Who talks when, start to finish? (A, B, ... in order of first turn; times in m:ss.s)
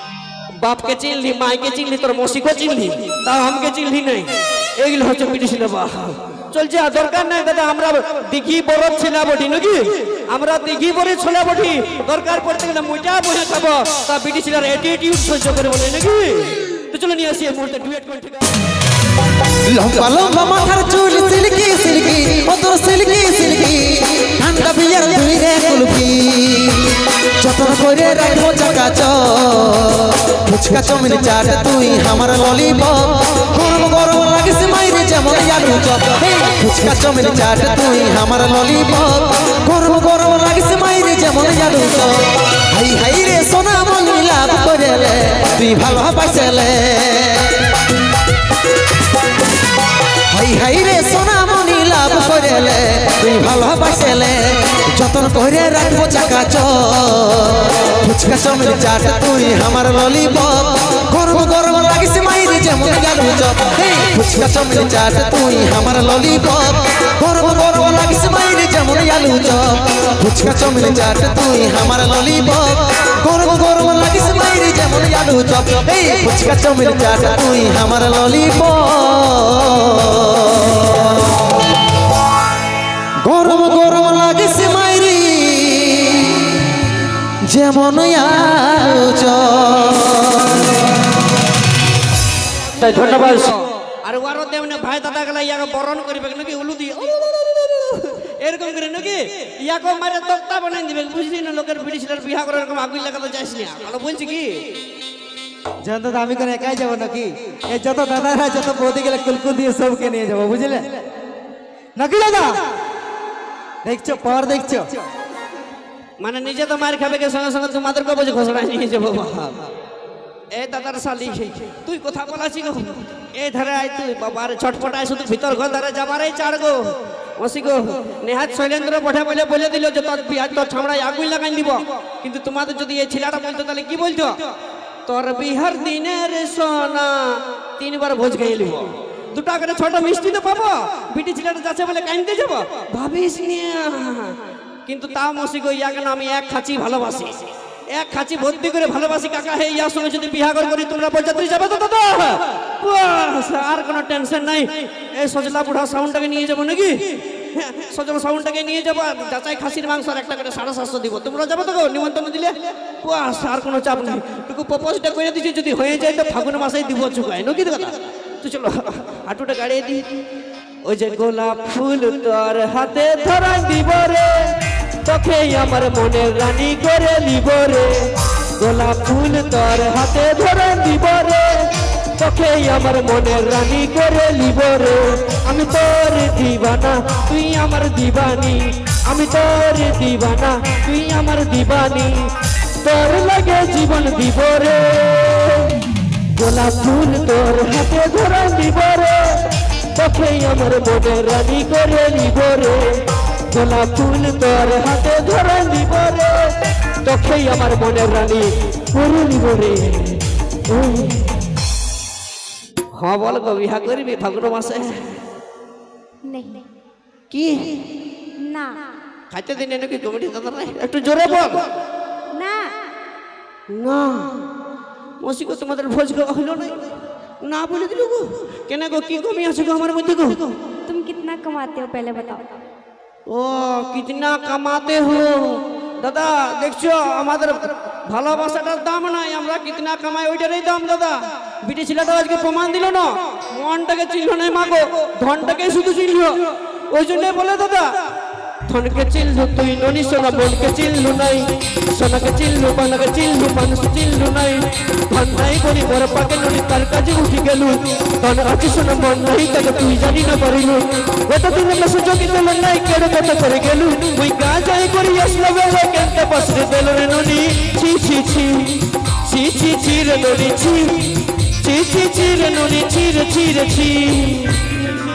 0:00.6-0:18.5 A
0:19.6-0:47.7 B
0:50.3-1:21.4 B
1:23.2-1:26.6 B
1:27.4-1:30.8 B
1:32.7-1:44.7 A
1:45.8-1:50.9 C
1:52.0-1:52.6 C
1:53.8-1:54.9 C
1:56.2-1:59.7 A
2:00.5-2:14.4 A
2:15.1-2:50.1 A
2:50.8-3:12.3 A
3:12.8-3:15.8 A
3:16.3-3:31.2 A
3:32.9-3:35.2 A
3:36.2-3:36.6 D
3:37.3-3:37.8 A
3:38.4-3:38.8 D
3:39.3-3:41.7 A
3:42.4-3:42.7 D
3:43.7-3:44.4 A
3:45.2-3:46.9 A
3:47.4-3:50.6 A
3:50.9-3:52.6 D
3:53.3-4:08.0 A
4:08.6-4:34.8 A